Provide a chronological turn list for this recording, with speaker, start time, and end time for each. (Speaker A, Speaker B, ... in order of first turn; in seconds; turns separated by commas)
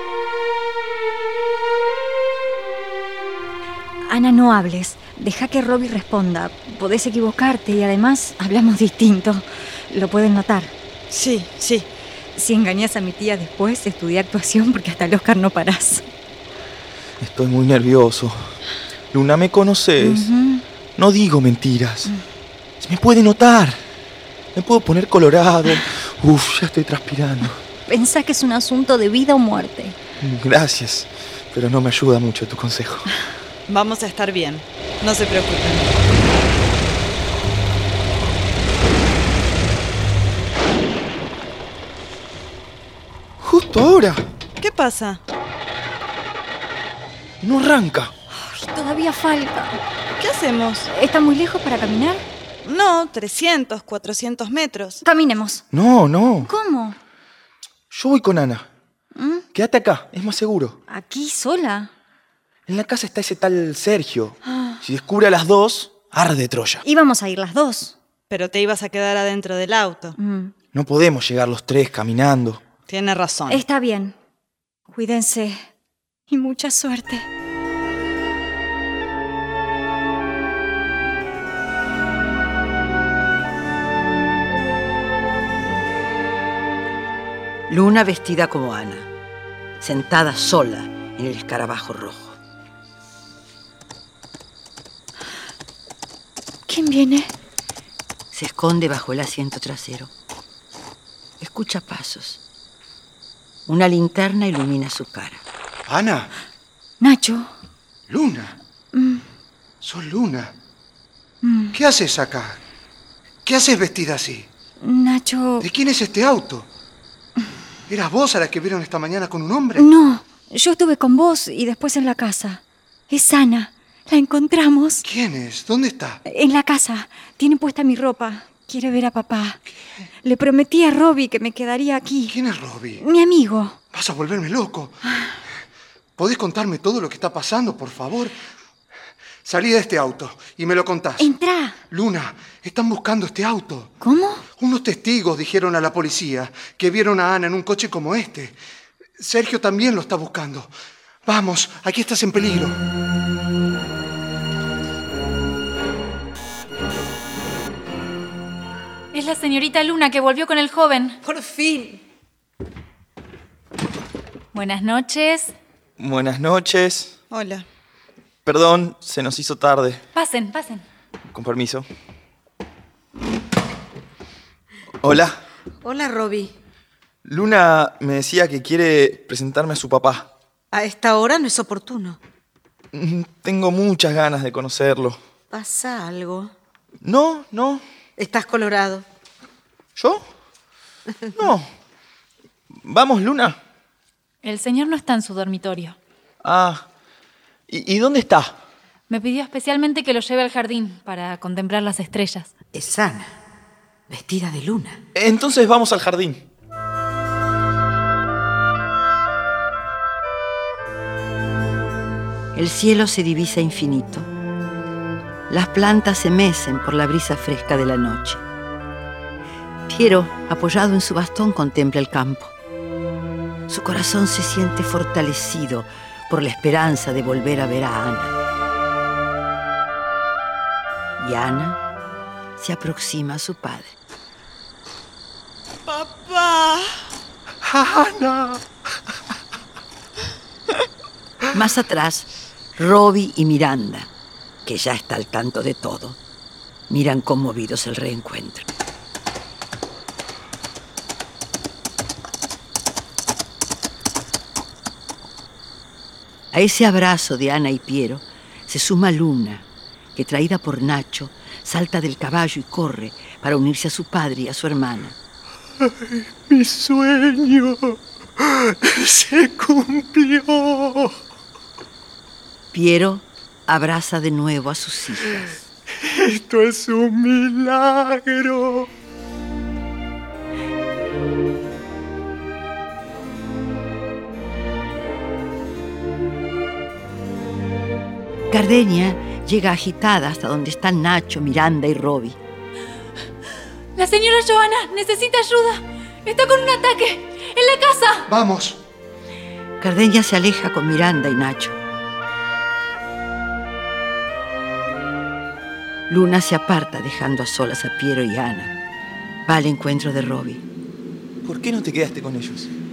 Speaker A: 4.0-10.7, Speaker B: 11.1-11.9, Speaker A: 12.3-16.1, Speaker C: 17.2-18.6, Speaker C: 19.1-20.3, Speaker A: 20.0-20.6, Speaker C: 21.0-22.1, Speaker C: 22.8-23.8, Speaker C: 24.6-27.6, Speaker A: 27.9-30.0, Speaker C: 30.2-33.1, Speaker B: 33.7-35.9, Speaker C: 43.4-44.2, Speaker B: 44.6-45.2, Speaker C: 47.4-48.1, Speaker A: 48.3-49.8, Speaker B: 50.2-50.9, Speaker A: 50.9-52.2, Speaker B: 52.6-55.0, Speaker A: 55.0-55.6, Speaker C: 55.7-56.5, Speaker A: 56.5-57.0, Speaker C: 57.9-58.7, Speaker A: 59.1-59.5, Speaker C: 59.5-60.8, Speaker A: 60.9-61.9, Speaker C: 62.7-66.8, Speaker A: 64.5-64.8, Speaker A: 66.8-68.0, Speaker B: 68.3-70.2, Speaker A: 70.2-70.5, Speaker C: 70.7-72.6, Speaker B: 72.9-73.7, Speaker A: 73.5-74.2, Speaker A: 74.9-75.7, Speaker A: 76.3-77.3, Speaker D: 87.7-89.1, Speaker D: 89.8-92.4, Speaker A: 96.7-97.3, Speaker D: 98.3-100.1, Speaker D: 101.4-102.4, Speaker D: 103.7-105.4, Speaker E: 105.9-106.3, Speaker A: 107.0-107.5, Speaker E: 108.1-108.6, Speaker A: 108.9-109.2, Speaker E: 109.8-110.5, Speaker A: 111.4-111.8, Speaker E: 111.7-112.6, Speaker E: 113.5-114.5, Speaker A: 114.8-115.7, Speaker E: 115.6-116.7, Speaker E: 117.9-119.9, Speaker A: 119.8-125.1, Speaker E: 125.0-126.2, Speaker A: 126.3-129.6, Speaker A: 130.2-132.4, Speaker E: 132.3-133.0, Speaker A: 133.0-133.8, Speaker E: 133.9-135.0, Speaker E: 136.2-138.4, Speaker E: 139.4-141.3, Speaker A: 141.2-141.8, Speaker E: 141.9-143.9, Speaker A: 144.0-144.4, Speaker E: 144.6-148.6, Speaker E: 149.2-150.7, Speaker E: 151.3-152.8, Speaker F: 159.1-161.2, Speaker G: 161.2-162.0, Speaker F: 164.6-165.5, Speaker C: 166.0-167.1, Speaker B: 167.3-167.7, Speaker C: 168.5-170.0, Speaker F: 170.2-170.8, Speaker C: 171.3-171.9, Speaker C: 175.0-175.4, Speaker G: 175.8-176.5, Speaker C: 177.2-180.3, Speaker G: 180.7-182.2, Speaker C: 182.9-185.2, Speaker G: 185.5-186.5, Speaker C: 187.0-187.8, Speaker G: 188.2-189.1, Speaker C: 190.0-190.3, Speaker C: 191.3-191.7, Speaker C: 192.8-193.6, Speaker F: 194.4-196.0, Speaker C: 196.4-196.9, Speaker C: 197.7-198.6, Speaker F: 199.1-202.5, Speaker D: 202.8-203.3, Speaker G: 204.1-205.0, Speaker C: 205.1-206.4, Speaker D: 212.5-214.3, Speaker D: 215.5-218.4, Speaker D: 219.9-222.5, Speaker D: 223.7-228.3, Speaker D: 231.2-231.8, Speaker D: 232.6-234.0, Speaker B: 235.9-236.9, Speaker D: 241.5-244.1, Speaker D: 244.7-246.2, Speaker D: 246.9-248.7, Speaker D: 256.5-265.2, Speaker H: 265.8-271.2, Speaker D: 272.7-275.6, Speaker H: 276.0-278.9, Speaker D: 288.5-292.4, Speaker F: 294.0-298.3, Speaker E: 298.3-298.8, Speaker D: 299.8-301.8, Speaker D: 306.1-308.8, Speaker D: 309.5-310.6, Speaker C: 311.4-312.7